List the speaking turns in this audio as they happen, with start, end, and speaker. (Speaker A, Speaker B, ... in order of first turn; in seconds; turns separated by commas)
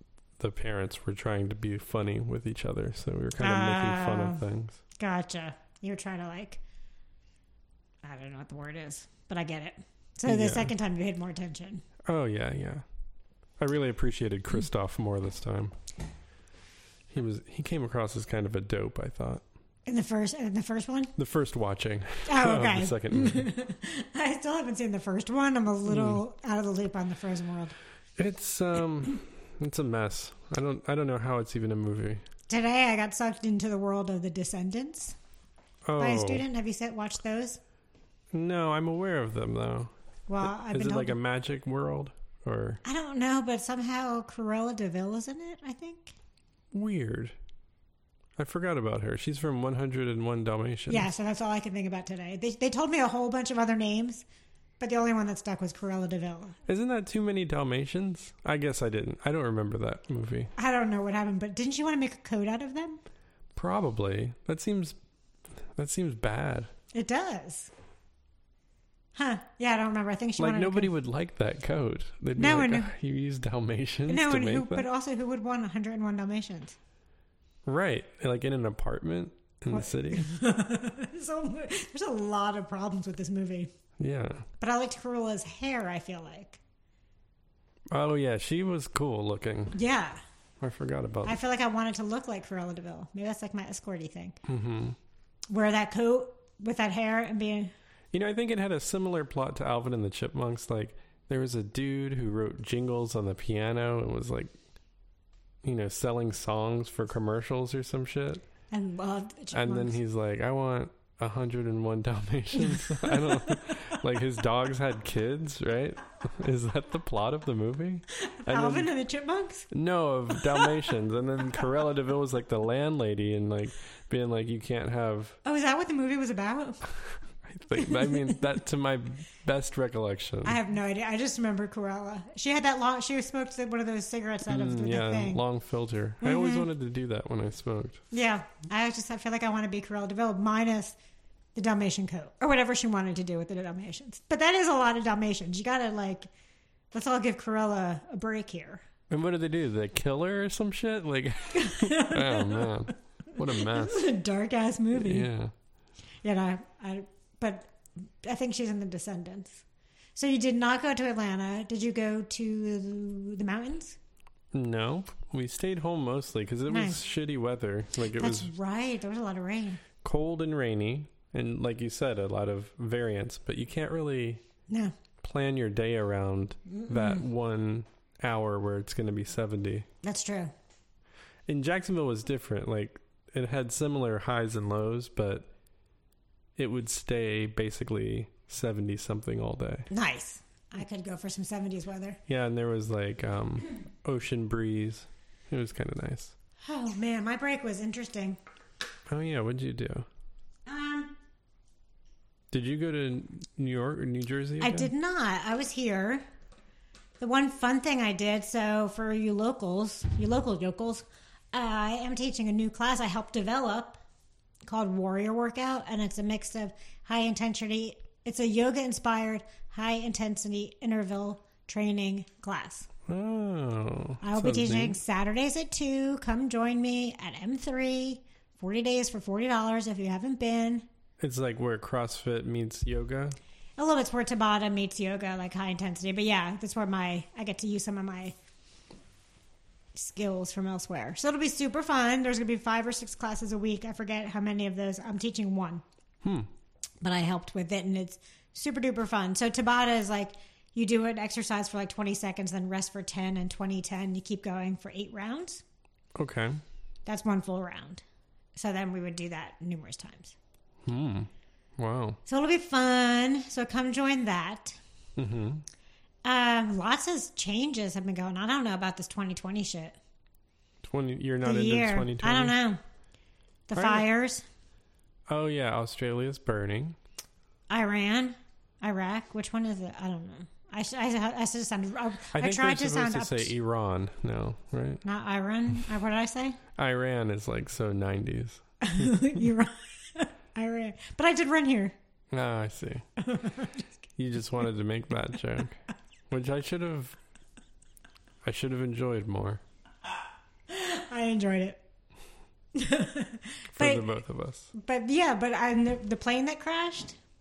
Speaker A: 0.4-4.8, Speaker B: 3.4-4.4, Speaker B: 5.0-6.6, Speaker B: 8.0-11.8, Speaker A: 10.3-10.7, Speaker A: 12.1-12.8, Speaker A: 13.6-15.7, Speaker A: 17.1-19.4, Speaker B: 19.9-21.1, Speaker A: 21.2-23.4, Speaker B: 22.2-27.7, Speaker A: 25.9-26.2, Speaker A: 28.2-32.2, Speaker B: 32.5-35.1, Speaker A: 35.9-36.4, Speaker B: 36.0-37.6, Speaker A: 38.3-42.8, Speaker B: 40.3-41.1, Speaker B: 42.8-46.1, Speaker A: 46.7-47.3, Speaker A: 48.4-51.1, Speaker B: 50.9-54.2, Speaker B: 54.8-56.6, Speaker A: 56.7-60.5, Speaker B: 60.6-63.0, Speaker A: 63.5-65.0, Speaker A: 65.8-66.7, Speaker B: 66.9-67.7, Speaker B: 69.1-70.9, Speaker A: 70.4-74.9, Speaker B: 72.4-72.9, Speaker B: 74.1-76.8, Speaker A: 77.6-80.3, Speaker B: 79.7-83.7, Speaker A: 84.0-84.5, Speaker B: 84.6-86.6, Speaker A: 87.9-89.8, Speaker B: 89.7-90.2, Speaker A: 90.6-91.4, Speaker B: 91.2-94.4, Speaker A: 94.5-95.0, Speaker B: 95.5-97.7, Speaker A: 98.1-104.5, Speaker A: 105.6-108.4, Speaker B: 108.7-110.0, Speaker A: 109.5-118.9, Speaker B: 112.7-114.0, Speaker B: 118.2-119.7, Speaker A: 119.7-125.4, Speaker B: 120.4-120.7, Speaker B: 125.4-126.9, Speaker A: 127.4-130.6, Speaker B: 127.8-128.4, Speaker B: 130.4-135.4, Speaker A: 134.5-138.0, Speaker B: 136.2-136.7, Speaker B: 138.1-140.9, Speaker B: 141.5-146.3, Speaker B: 146.9-148.8, Speaker A: 149.1-154.1, Speaker B: 151.5-152.9, Speaker B: 153.5-155.3, Speaker A: 154.9-155.5, Speaker B: 156.2-159.6, Speaker B: 160.2-164.0, Speaker A: 164.5-168.5, Speaker B: 166.7-167.0, Speaker B: 168.2-169.8, Speaker A: 170.0-174.4, Speaker B: 174.7-174.9, Speaker A: 175.2-179.9, Speaker B: 176.7-177.2, Speaker B: 180.0-180.5, Speaker A: 181.5-185.5, Speaker A: 186.6-189.9, Speaker B: 189.9-192.2, Speaker A: 192.3-196.3, Speaker B: 196.6-198.4, Speaker A: 199.1-200.1, Speaker B: 200.7-201.1, Speaker A: 202.5-204.9, Speaker B: 204.6-206.2, Speaker B: 207.2-214.0, Speaker B: 214.7-222.9, Speaker A: 223.1-225.0, Speaker B: 224.2-230.8, Speaker A: 231.2-233.4, Speaker B: 233.8-238.3, Speaker B: 239.9-245.8, Speaker A: 246.2-246.5, Speaker B: 247.0-255.6, Speaker A: 256.1-256.6, Speaker B: 257.1-258.0, Speaker B: 258.6-260.4, Speaker A: 260.9-262.2, Speaker B: 262.2-264.8, Speaker A: 265.2-265.6, Speaker B: 266.2-269.9, Speaker A: 270.8-272.6, Speaker B: 271.4-272.8, Speaker B: 273.7-274.4, Speaker A: 273.8-274.1, Speaker A: 275.3-277.0, Speaker B: 277.7-283.5, Speaker A: 282.3-285.0, Speaker B: 285.0-286.6, Speaker A: 286.8-289.1, Speaker B: 288.8-291.9, Speaker A: 292.3-293.0, Speaker B: 293.2-293.8, Speaker A: 294.2-297.1, Speaker A: 298.4-299.6, Speaker B: 300.7-301.8, Speaker B: 302.7-304.0, Speaker A: 303.7-304.7, Speaker B: 304.7-307.2